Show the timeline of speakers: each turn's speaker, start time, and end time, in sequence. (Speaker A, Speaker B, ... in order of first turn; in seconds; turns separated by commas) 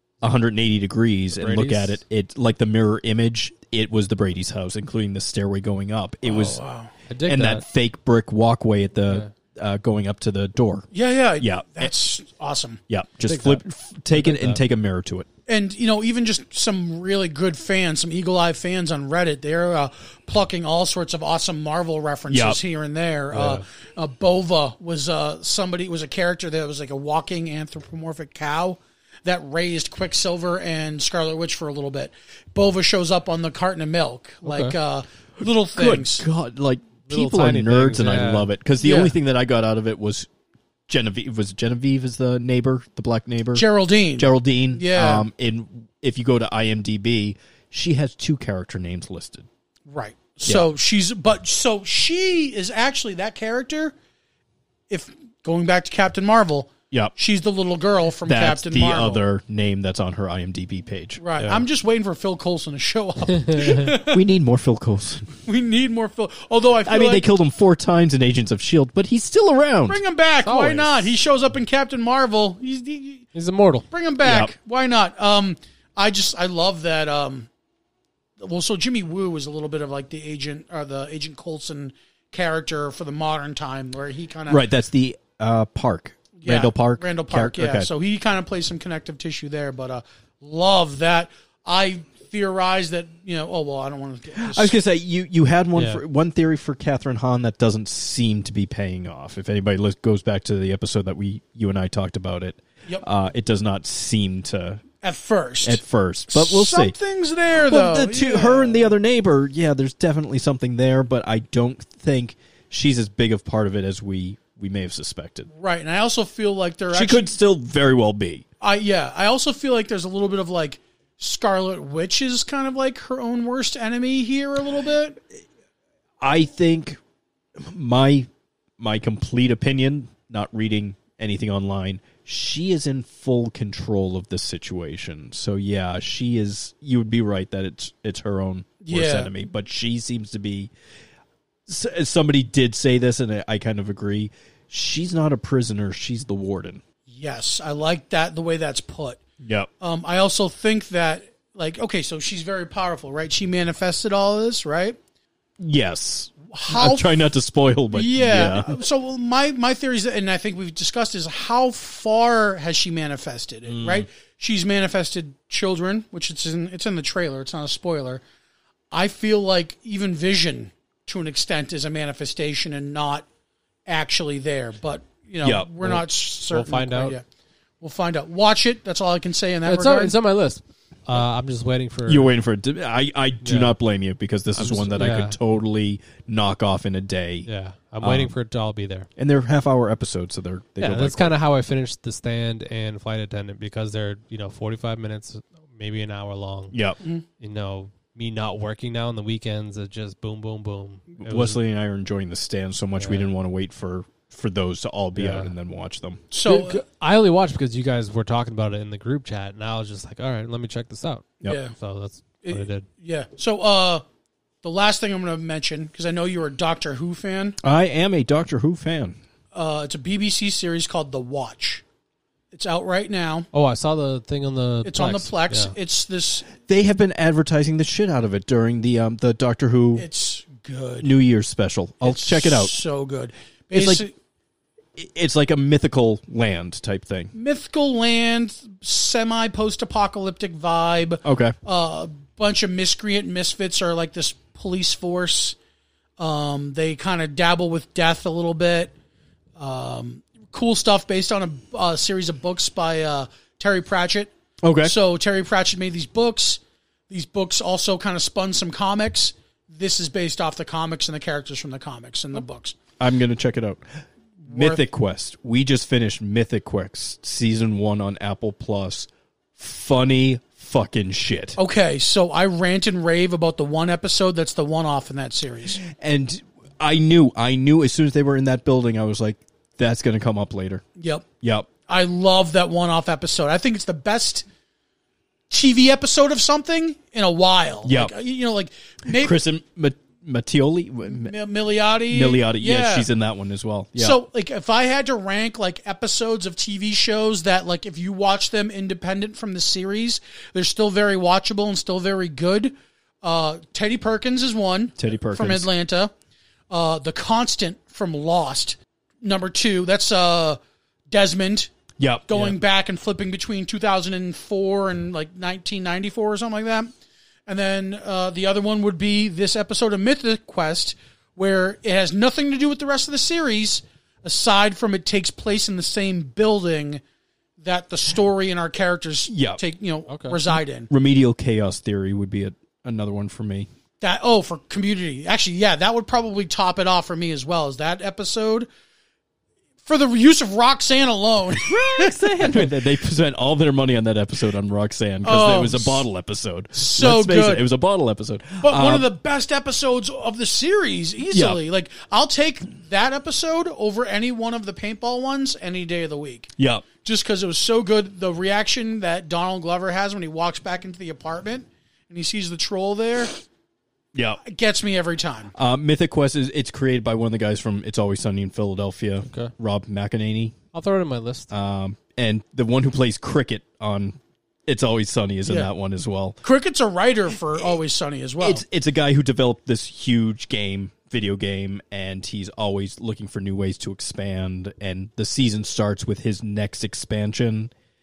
Speaker A: 0.2-6.6, Speaker B: 1.3-2.0, Speaker C: 6.2-6.9, Speaker B: 7.1-7.6, Speaker A: 7.2-10.9, Speaker B: 9.1-9.3, Speaker C: 10.9-12.8, Speaker A: 11.4-11.9, Speaker A: 12.9-15.3, Speaker B: 13.2-14.6, Speaker C: 15.5-36.2, Speaker A: 22.3-22.6, Speaker B: 23.3-23.6, Speaker B: 34.4-34.8, Speaker A: 35.7-40.3, Speaker B: 37.1-38.5, Speaker C: 38.8-39.1, Speaker A: 40.9-43.6, Speaker C: 43.5-45.3, Speaker A: 44.2-49.5, Speaker C: 49.9-53.9, Speaker C: 54.9-59.2, Speaker A: 58.2-61.2, Speaker C: 61.2-64.2, Speaker B: 61.4-61.6, Speaker B: 63.5-63.7, Speaker A: 64.0-65.3, Speaker C: 65.4-67.2, Speaker A: 66.8-70.0, Speaker C: 69.9-73.3, Speaker B: 70.4-71.1, Speaker B: 73.3-73.9, Speaker C: 73.9-77.5, Speaker A: 74.2-74.5, Speaker C: 78.4-84.6, Speaker A: 84.5-87.9, Speaker C: 86.4-94.7, Speaker A: 94.3-104.8, Speaker B: 95.7-96.0, Speaker C: 105.0-108.9, Speaker A: 105.6-106.9, Speaker A: 107.5-115.5, Speaker C: 115.5-117.2, Speaker A: 116.9-118.5, Speaker C: 118.6-125.2, Speaker A: 126.2-127.0, Speaker A: 127.6-128.3, Speaker A: 128.8-140.7, Speaker C: 138.8-139.3, Speaker A: 141.7-146.8, Speaker C: 147.1-149.2, Speaker A: 149.4-149.7, Speaker C: 149.8-155.0, Speaker A: 155.6-158.8, Speaker C: 156.5-157.3, Speaker C: 157.9-168.2, Speaker A: 163.7-164.1, Speaker C: 168.9-173.2, Speaker C: 173.8-177.2, Speaker A: 175.4-176.0, Speaker B: 176.5-177.2, Speaker C: 177.8-180.1, Speaker B: 179.6-182.3, Speaker A: 182.1-187.5, Speaker B: 183.4-183.8, Speaker B: 184.6-185.4, Speaker B: 187.4-189.1, Speaker A: 188.0-188.3, Speaker A: 189.2-191.3, Speaker B: 190.8-196.8, Speaker A: 196.7-197.0, Speaker B: 197.4-201.6, Speaker A: 201.2-206.2, Speaker B: 203.0-203.3, Speaker B: 205.1-205.5, Speaker C: 206.3-206.8, Speaker B: 206.4-212.9, Speaker C: 211.4-211.7, Speaker C: 212.4-214.0, Speaker C: 214.6-217.6, Speaker A: 217.6-219.2, Speaker C: 219.5-221.8, Speaker C: 222.5-223.5, Speaker B: 223.5-225.7, Speaker C: 224.8-226.5, Speaker A: 226.5-230.1, Speaker C: 229.9-231.1, Speaker A: 231.0-232.8, Speaker C: 232.0-234.1, Speaker A: 233.7-234.0, Speaker A: 234.9-237.3, Speaker C: 237.3-245.6, Speaker A: 241.2-241.5, Speaker C: 246.2-248.9, Speaker C: 249.6-254.3, Speaker A: 254.6-254.9, Speaker C: 254.8-262.8, Speaker A: 263.0-263.8, Speaker A: 264.5-271.6, Speaker C: 264.5-264.8, Speaker C: 271.6-275.8, Speaker A: 275.8-280.8, Speaker C: 281.0-281.3, Speaker A: 281.4-281.7, Speaker C: 281.8-284.4, Speaker C: 285.5-289.4, Speaker A: 287.8-288.1, Speaker A: 289.1-291.3, Speaker C: 291.1-293.1, Speaker A: 292.1-294.2, Speaker C: 294.0-306.1, Speaker A: 305.0-305.7, Speaker C: 306.7-311.7, Speaker A: 312.0-312.6, Speaker C: 312.3-316.9, Speaker C: 317.5-327.0, Speaker C: 327.6-330.9, Speaker A: 329.3-329.6, Speaker B: 330.1-330.4, Speaker A: 330.9-333.7, Speaker C: 334.0-338.7, Speaker C: 339.8-342.7, Speaker A: 341.5-349.1, Speaker C: 345.2-346.0, Speaker C: 346.7-347.6, Speaker C: 348.6-363.4, Speaker A: 351.3-351.6, Speaker A: 356.6-356.9, Speaker A: 364.1-364.4, Speaker C: 364.4-365.5, Speaker A: 365.5-370.6, Speaker B: 369.2-369.5, Speaker B: 370.7-371.5, Speaker A: 371.5-376.4, Speaker C: 375.4-375.7, Speaker C: 376.4-378.6, Speaker A: 378.4-387.7